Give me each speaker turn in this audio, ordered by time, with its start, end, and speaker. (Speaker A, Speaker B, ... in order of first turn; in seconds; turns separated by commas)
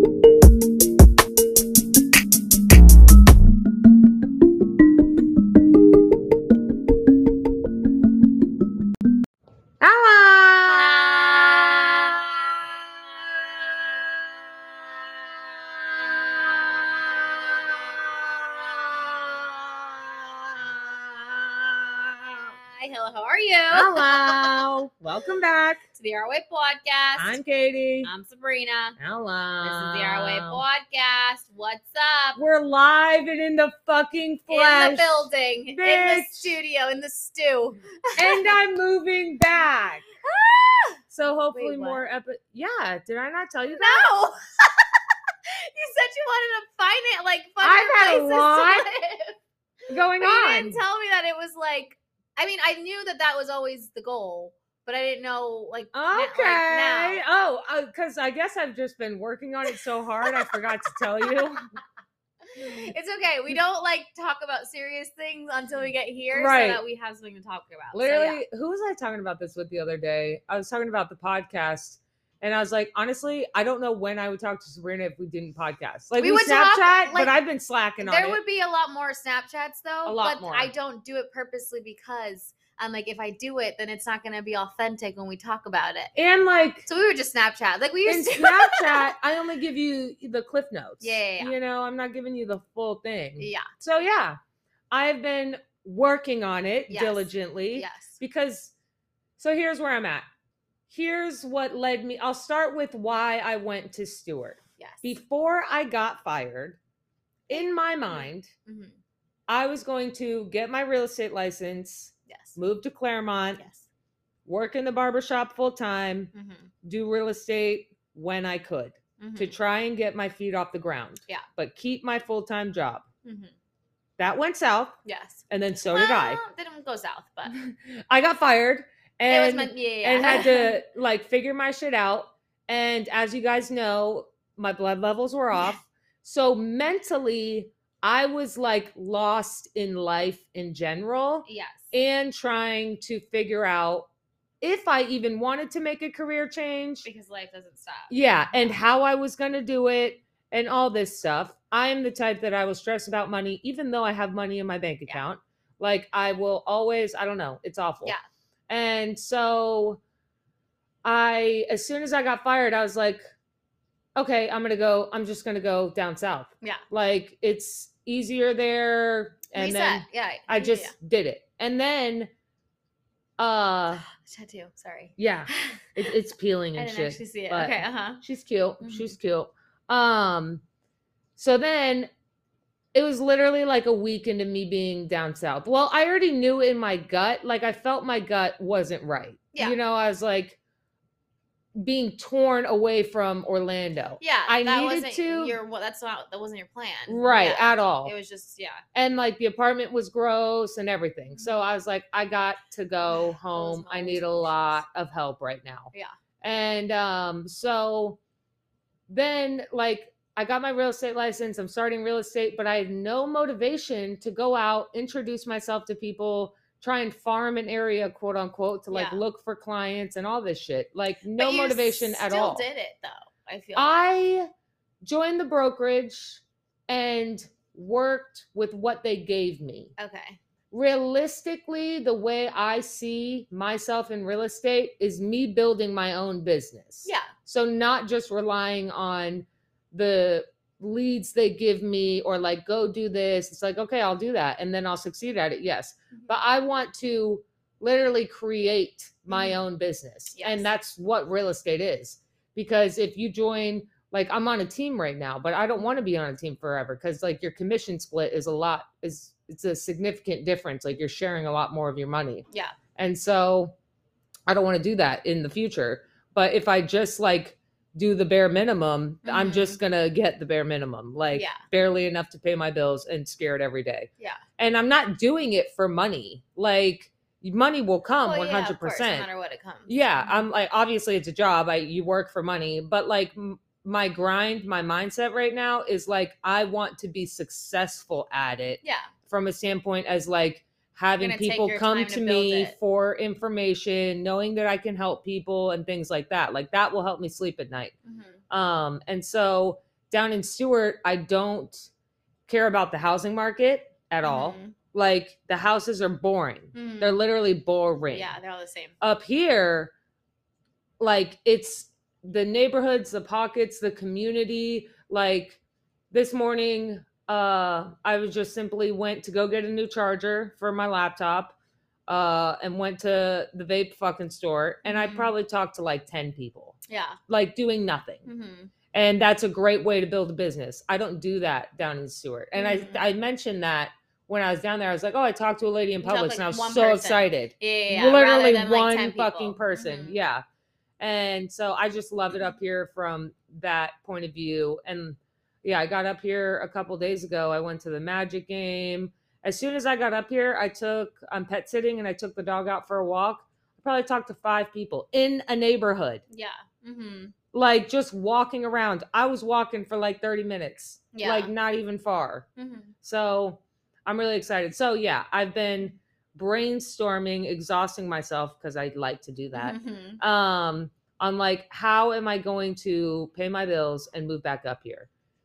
Speaker A: 9.8-11.5, Speaker B: 10.7-12.3, Speaker B: 15.9-19.1, Speaker A: 21.8-22.4, Speaker B: 22.5-24.6, Speaker A: 23.7-25.8, Speaker B: 25.9-27.4, Speaker A: 27.2-28.1, Speaker B: 28.0-29.0, Speaker A: 29.0-30.6, Speaker B: 29.6-32.4, Speaker A: 32.4-36.5, Speaker B: 34.5-38.6, Speaker A: 38.2-40.0, Speaker B: 40.2-41.0, Speaker A: 41.1-44.0, Speaker B: 41.5-42.0, Speaker B: 43.7-44.8, Speaker B: 45.5-49.4, Speaker A: 47.6-48.9, Speaker A: 49.9-50.8, Speaker B: 50.1-57.2, Speaker A: 55.9-61.7, Speaker B: 60.2-61.3, Speaker B: 62.5-68.4, Speaker A: 62.6-62.8, Speaker A: 66.3-66.8, Speaker A: 67.9-78.4, Speaker B: 76.2-77.3, Speaker B: 78.0-86.1, Speaker A: 80.0-80.7, Speaker A: 86.1-86.8, Speaker B: 86.8-89.1, Speaker A: 88.0-94.4, Speaker B: 91.0-91.5, Speaker B: 93.4-93.7, Speaker A: 94.9-98.7, Speaker B: 96.9-98.2, Speaker A: 99.4-100.3, Speaker A: 100.9-106.8, Speaker B: 104.8-105.1, Speaker A: 107.5-108.5, Speaker B: 107.5-109.0, Speaker A: 109.5-113.6, Speaker B: 112.3-112.5, Speaker B: 113.6-113.8, Speaker A: 114.5-116.3, Speaker B: 116.3-116.7, Speaker A: 116.8-123.0, Speaker B: 119.2-119.5, Speaker B: 123.2-123.5, Speaker A: 124.2-125.0, Speaker B: 125.0-127.5, Speaker A: 125.5-126.4, Speaker A: 127.5-144.1, Speaker B: 129.3-130.7, Speaker B: 135.5-135.8, Speaker B: 141.4-141.9, Speaker A: 144.6-147.1, Speaker B: 147.0-148.8, Speaker A: 148.1-158.1, Speaker A: 158.7-160.0, Speaker A: 161.0-163.3, Speaker A: 164.2-172.3, Speaker B: 169.5-170.9, Speaker A: 173.4-174.0, Speaker B: 174.0-176.0, Speaker A: 175.2-180.6, Speaker B: 176.7-178.2, Speaker B: 178.8-179.1, Speaker A: 181.4-182.1, Speaker A: 182.9-190.6, Speaker A: 191.7-195.6, Speaker B: 194.2-198.8, Speaker A: 197.1-198.1, Speaker A: 198.9-205.9, Speaker B: 203.1-204.8, Speaker A: 206.4-208.2, Speaker A: 209.1-222.6, Speaker B: 218.9-219.2, Speaker B: 221.4-224.0, Speaker A: 223.8-224.5, Speaker A: 225.0-229.9, Speaker B: 230.0-230.4, Speaker A: 230.7-262.4, Speaker B: 237.0-237.3, Speaker B: 249.3-249.6, Speaker B: 250.3-250.7, Speaker A: 262.9-263.7, Speaker A: 264.5-279.3, Speaker B: 269.2-269.8, Speaker B: 271.3-271.6, Speaker B: 278.2-280.4, Speaker A: 279.9-297.9, Speaker B: 288.8-289.1, Speaker B: 291.2-292.8, Speaker B: 298.0-298.4, Speaker A: 298.5-301.9, Speaker A: 302.5-308.3, Speaker B: 304.2-304.8, Speaker B: 306.7-307.2, Speaker B: 308.1-308.9, Speaker A: 309.0-309.9, Speaker A: 311.0-315.6, Speaker A: 316.1-321.5, Speaker A: 322.1-326.8, Speaker B: 324.8-325.3, Speaker B: 326.9-327.2, Speaker A: 327.3-328.2, Speaker B: 328.2-328.7, Speaker A: 328.9-340.4, Speaker B: 332.5-333.0, Speaker B: 336.0-340.1, Speaker A: 341.0-356.2, Speaker B: 356.3-357.3, Speaker A: 357.5-362.5, Speaker B: 361.1-361.5, Speaker B: 362.6-362.9, Speaker A: 363.0-375.1, Speaker B: 369.5-370.2